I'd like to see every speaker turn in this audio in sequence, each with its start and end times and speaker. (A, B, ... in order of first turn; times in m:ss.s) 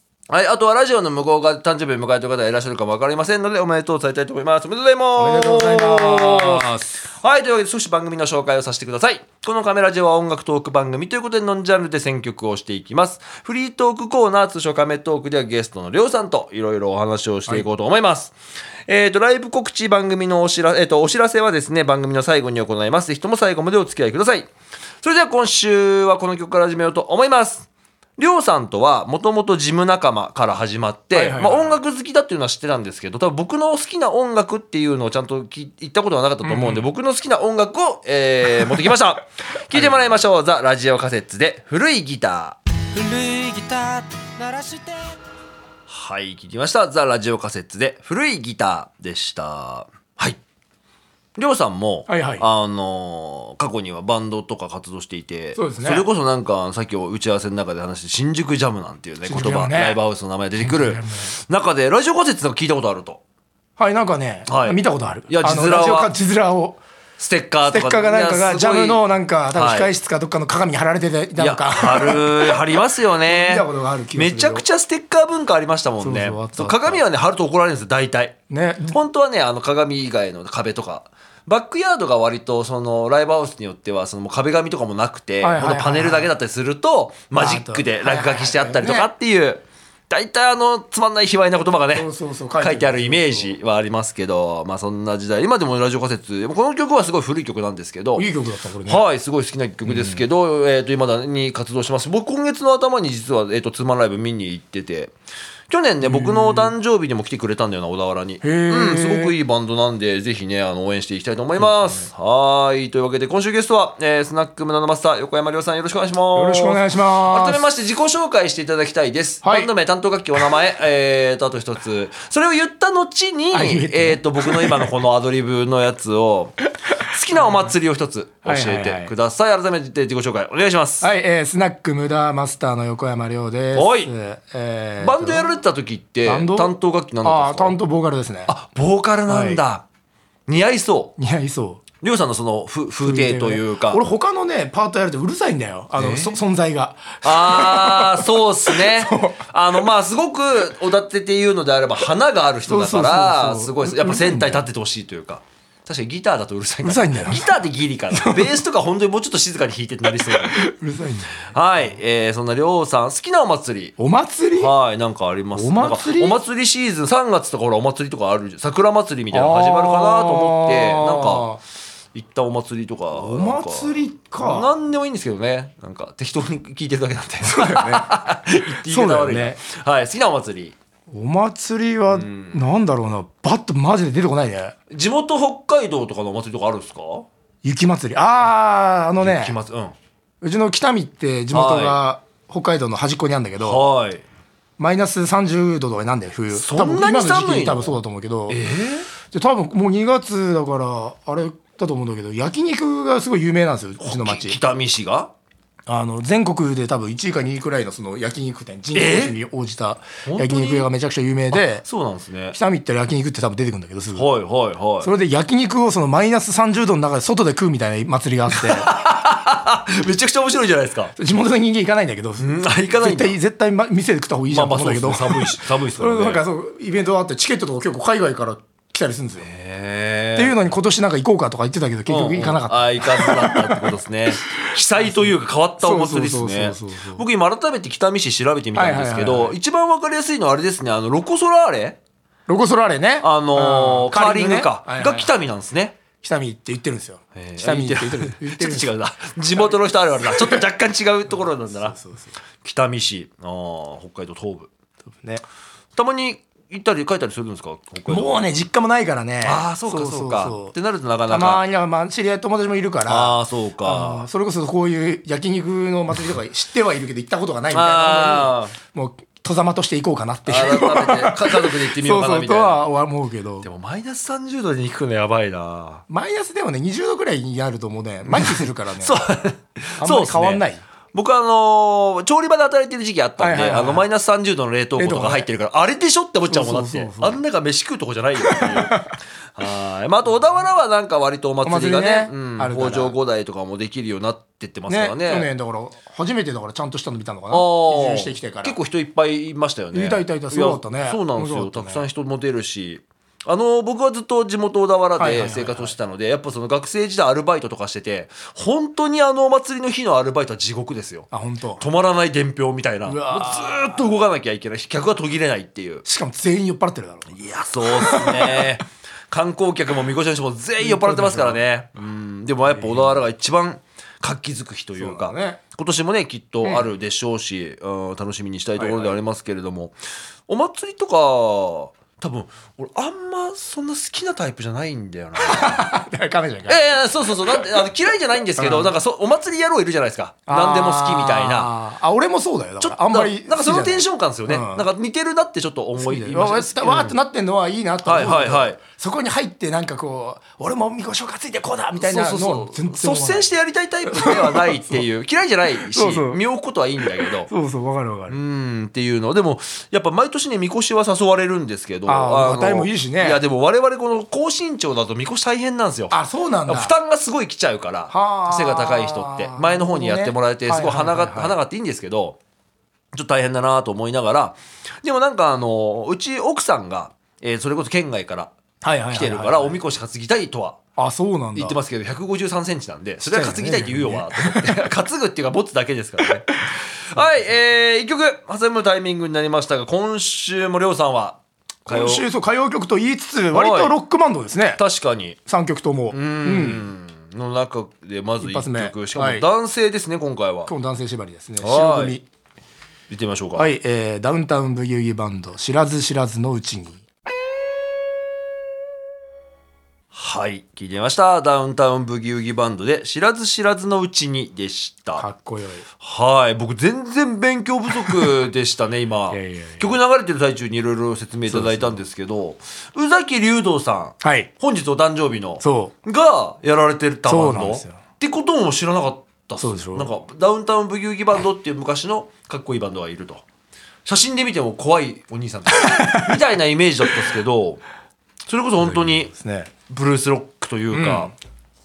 0:00.3-0:18.4 A
0:05.2-0:06.9 B
0:18.9-0:24.5 A
0:25.0-0:42.6 A
0:31.1-0:31.8 B
0:36.4-0:36.8 B
0:39.7-0:40.2 B
0:42.9-0:45.2 C
0:45.9-0:50.4 A
0:51.4-1:03.2 A
0:52.1-0:52.4 B
0:55.6-0:56.0 B
0:59.2-1:00.0 B
1:00.6-1:01.3 B
1:03.8-1:06.8 B
1:04.5-1:06.1 A
1:07.2-1:09.9 A
1:07.7-1:12.6 B
1:11.4-1:18.4 A
1:13.3-1:14.6 B
1:16.0-1:17.0 B
1:18.5-1:19.0 B
1:18.9-1:32.1 A
1:25.4-1:26.3 B
1:27.4-1:29.1 B
1:31.9-1:33.5 B
1:32.6-1:38.2 A
1:38.2-1:39.0 B
1:38.8-1:45.1 A
1:39.8-1:40.2 B
1:45.7-2:11.1 A
1:46.0-1:46.7 B
1:48.4-1:49.3 B
1:51.6-1:52.1 B
1:56.3-1:57.6 B
1:59.4-1:59.7 B
2:03.5-2:04.9 B
2:07.3-2:07.7 B
2:08.4-2:09.1 B
2:11.0-2:15.5 B
2:13.7-2:14.1 A
2:15.0-2:17.8 A
2:16.2-2:18.5 B
2:18.5-2:19.8 A
2:19.3-2:19.6 B
2:20.5-2:21.1 A
2:21.2-2:21.8 B
2:22.0-2:24.0 A
2:23.0-2:29.4 B
2:26.0-2:26.4 A
2:27.2-2:40.6 A
2:32.6-2:34.6 B
2:36.8-2:37.6 B
2:38.1-2:38.6 B
2:40.3-2:41.4 B
2:41.4-2:43.9 A
2:44.0-2:44.7 B
2:44.6-2:51.5 A
2:45.5-2:46.4 B
2:49.3-2:51.6 B
2:52.1-3:00.8 A
2:53.1-2:54.7 B
2:57.4-2:59.6 B
3:01.1-3:04.8 B
3:02.1-3:02.6 A
3:04.9-3:07.3 A
3:07.6-3:09.6 B
3:09.2-3:09.9 A
3:10.4-3:13.8 B
3:11.5-3:12.0 A
3:13.6-3:14.2 A
3:14.8-3:18.6 B
3:16.5-3:18.0 A
3:18.5-3:19.1 A
3:19.3-3:24.6 B
3:24.0-3:25.3 A
3:25.9-3:31.8 B
3:28.9-3:29.4 A
3:30.2-3:30.9 A
3:31.5-3:32.6 A
3:32.5-3:34.3 B
3:34.1-3:35.1 A
3:35.0-3:38.9 B
3:38.5-3:41.1 A
3:41.2-3:49.5 B
3:42.4-3:43.4 A
3:44.5-3:46.4 A
3:49.4-3:50.6 A
3:50.4-3:53.9 B
3:52.1-4:02.0 A
3:54.4-3:57.2 B
3:58.7-3:59.5 B
4:02.5-4:05.3 B
4:03.2-4:06.0 A
4:06.2-4:08.9 B
4:07.3-4:12.0 A
4:10.2-4:10.6 B
4:11.3-4:12.3 B
4:12.6-4:14.7 A
4:16.0-4:18.4 A
4:18.1-4:20.7 B
4:19.4-4:21.6 A
4:21.3-4:33.6 B
4:23.1-4:24.2 A
4:27.7-4:28.8 A
4:30.5-4:32.8 A
4:33.6-4:36.0 A
4:36.1-4:39.2 B
4:38.3-4:49.0 A
4:40.0-4:40.8 B
4:43.4-4:44.0 B
4:45.0-4:45.5 B
4:46.5-4:47.4 B
4:48.4-4:49.1 B
4:49.5-4:55.5 A
4:51.6-4:53.1 B
4:54.9-4:58.8 B
4:57.5-5:11.3 A
4:59.9-5:02.0 B
5:05.2-5:05.9 B
5:11.3-5:11.8 B
5:11.8-5:16.0 A
5:13.0-5:14.0 B
5:16.0-5:18.7 B
5:17.3-5:29.9 A
5:20.8-5:21.6 B
5:22.7-5:23.2 B
5:25.0-5:25.6 B
5:28.8-5:29.2 B
5:30.5-5:35.9 A
5:35.4-5:39.0 B
5:36.7-5:41.7 A
5:40.5-5:44.8 B
5:42.8-5:47.2 A
5:46.0-5:53.5 B
5:48.0-5:48.8 A
5:52.0-5:57.5 A
5:54.0-5:55.0 B
5:55.8-5:56.4 B
5:57.0-5:58.4 B
5:58.3-6:06.2 A
6:02.1-6:03.4 B
6:06.1-6:06.9 B
6:06.7-6:12.4 A
6:08.1-6:11.6 B
6:13.1-6:18.5 A
6:18.8-6:19.8 B
6:19.1-6:20.8 A
6:21.0-6:21.8 B
6:21.5-6:32.2 A
6:23.2-6:24.9 B
6:27.1-6:27.5 B
6:31.9-6:34.8 B
6:33.5-6:33.9 A
6:34.8-6:35.4 A
6:35.4-6:36.9 B
6:36.1-6:40.7 A
6:38.4-6:39.4 B
6:40.7-6:42.2 B
6:41.6-6:42.2 A
6:43.1-6:43.7 A
6:43.6-6:47.0 B
6:50.1-6:55.2 A
6:55.2-6:55.8 B
6:56.0-7:13.4 A
6:57.9-6:58.3 B
6:59.3-6:59.9 B
7:01.5-7:02.0 B
7:04.2-7:04.5 B
7:05.6-7:05.9 B
7:07.3-7:08.0 B
7:09.6-7:10.1 B
7:14.0-7:17.8 A
7:15.8-7:16.4 B
7:18.5-7:19.3 A
7:18.8-7:19.7 B
7:19.9-7:21.3 A
7:20.9-7:21.3 B